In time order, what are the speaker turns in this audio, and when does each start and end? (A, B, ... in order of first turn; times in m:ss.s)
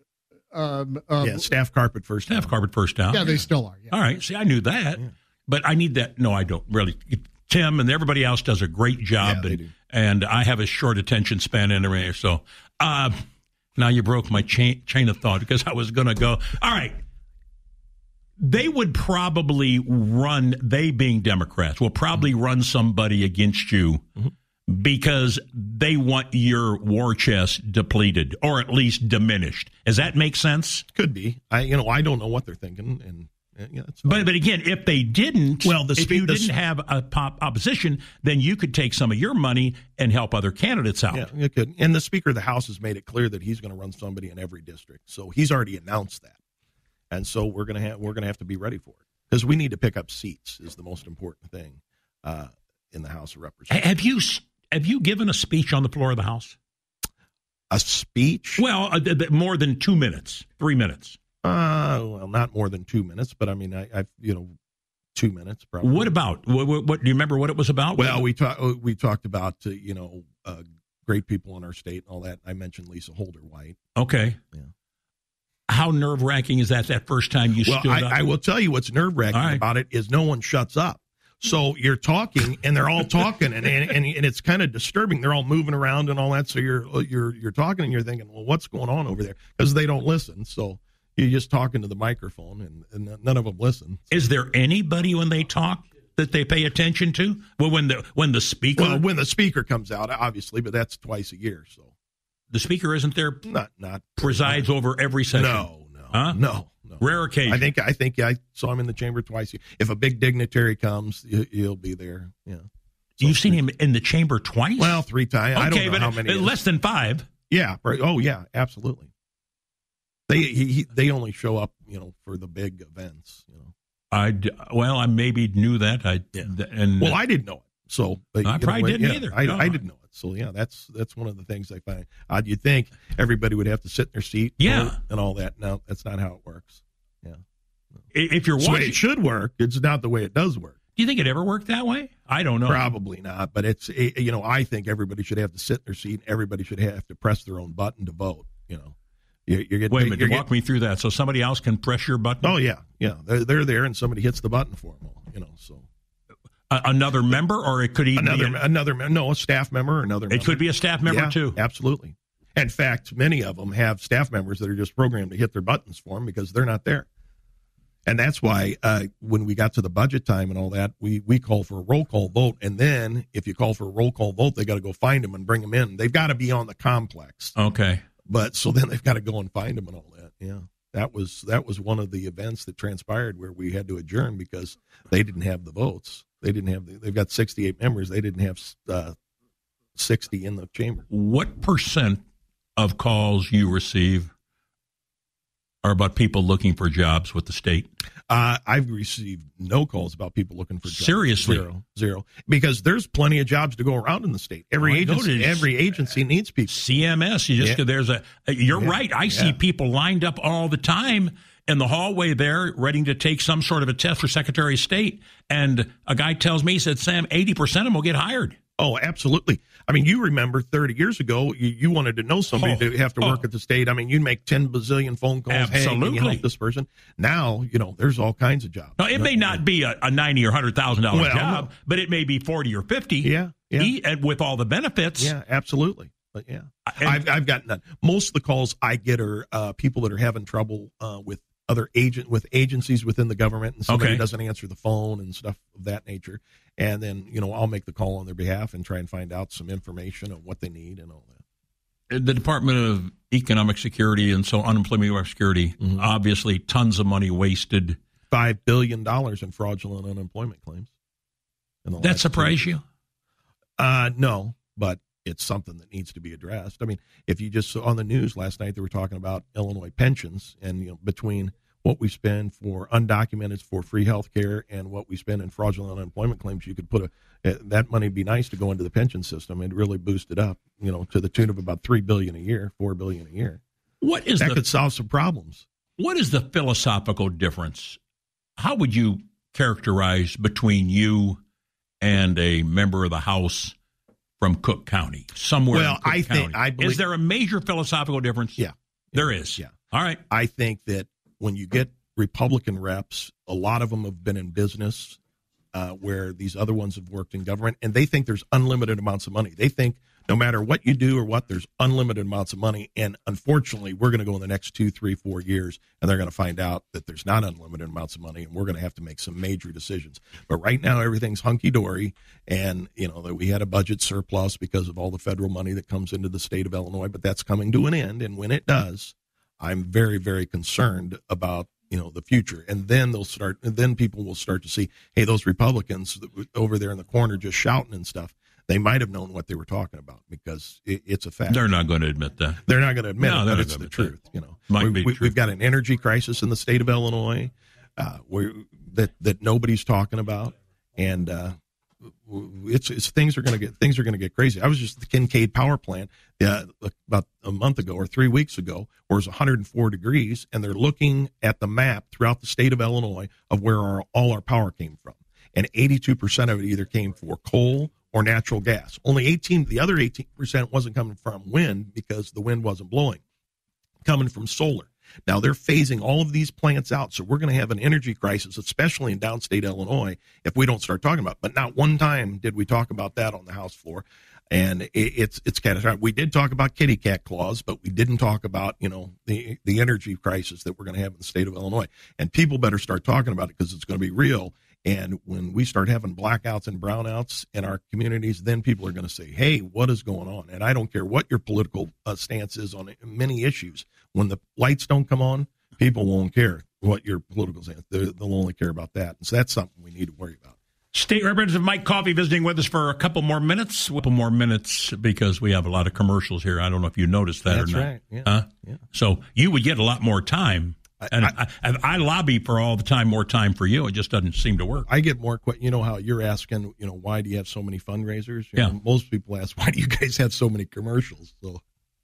0:00.5-0:01.5 A
0:01.2-0:02.5 B
0:02.3-0:13.2 C
0:03.1-0:04.0 A
0:09.2-0:09.7 B
0:13.8-0:17.0 C
0:18.4-0:24.0 C
0:24.7-0:30.8 C
0:30.9-0:34.3 B
0:34.1-0:41.3 C
0:35.6-0:36.5 B
0:41.1-0:46.4 B
0:47.1-0:53.9 B
0:53.7-0:56.6 C
0:57.7-0:58.6 B
0:58.6-1:01.2 C
1:01.4-1:04.5 B
1:05.1-1:06.1 B
1:05.8-1:08.2 C
1:08.0-1:13.8 B
1:14.0-1:14.4 C
1:15.7-1:18.2 C
1:17.6-1:34.2 B
1:19.3-1:19.6 C
1:34.1-1:39.0 C
1:38.8-1:41.9 B
1:42.5-1:43.4 C
1:43.4-1:44.7 B
1:44.2-1:46.4 C
1:45.3-1:52.7 B
1:47.0-1:47.7 C
1:53.2-1:53.6 B
1:53.2-1:55.0 C
1:54.8-1:56.6 B
1:55.6-1:57.3 C
1:57.5-1:59.1 B
2:00.3-2:03.7 B
2:04.1-2:07.2 C
2:07.0-2:17.4 B
2:08.4-2:09.8 C
2:14.6-2:15.0 C
2:18.1-2:19.0 C
2:18.6-2:20.8 B
2:21.0-2:22.8 C
2:22.6-2:29.0 B
2:29.5-2:30.4 B
2:29.9-2:32.5 C
2:32.4-2:35.9 B
2:36.7-2:38.6 C
2:38.1-2:47.1 B
2:40.3-2:41.6 C
2:48.0-2:57.5 B
2:57.6-2:58.0 C
2:58.3-3:09.1 B
3:10.0-3:11.0 B
3:11.1-3:12.2 C
3:12.8-3:14.3 C
3:15.8-3:17.9 C
3:18.3-3:26.8 B
3:20.8-3:21.6 C
3:24.8-3:25.7 C
3:26.7-3:38.6 C
3:28.7-3:29.6 B
3:38.8-3:49.6 B
3:42.6-3:43.4 C
3:45.5-3:46.4 C
3:49.0-3:55.3 C
3:51.1-3:51.7 B
3:53.2-3:53.9 B
3:55.2-4:11.4 B
3:56.9-3:57.2 C
4:03.9-4:04.2 C
4:12.1-4:18.0 C
4:18.3-4:20.9 B
4:21.8-4:22.7 B
4:22.0-4:22.8 C
4:23.8-4:43.6 B
4:44.0-4:44.6 C
4:44.4-4:45.6 B
4:46.0-4:48.0 C
4:48.6-4:51.4 C
4:52.0-4:53.8 C
4:54.4-4:58.6 C
4:55.7-4:57.0 B
4:58.6-4:59.8 B
4:59.1-5:00.2 C
5:00.3-5:05.2 B
5:05.7-5:41.7 B
5:41.5-5:42.6 C
5:42.6-5:51.5 B
5:43.2-5:44.1 C
5:44.7-5:45.3 C
5:52.2-6:13.2 B
6:14.0-6:50.5 B
6:50.9-7:04.9 C
6:57.5-6:58.8 B
7:01.0-7:01.3 B
7:04.9-7:11.6 B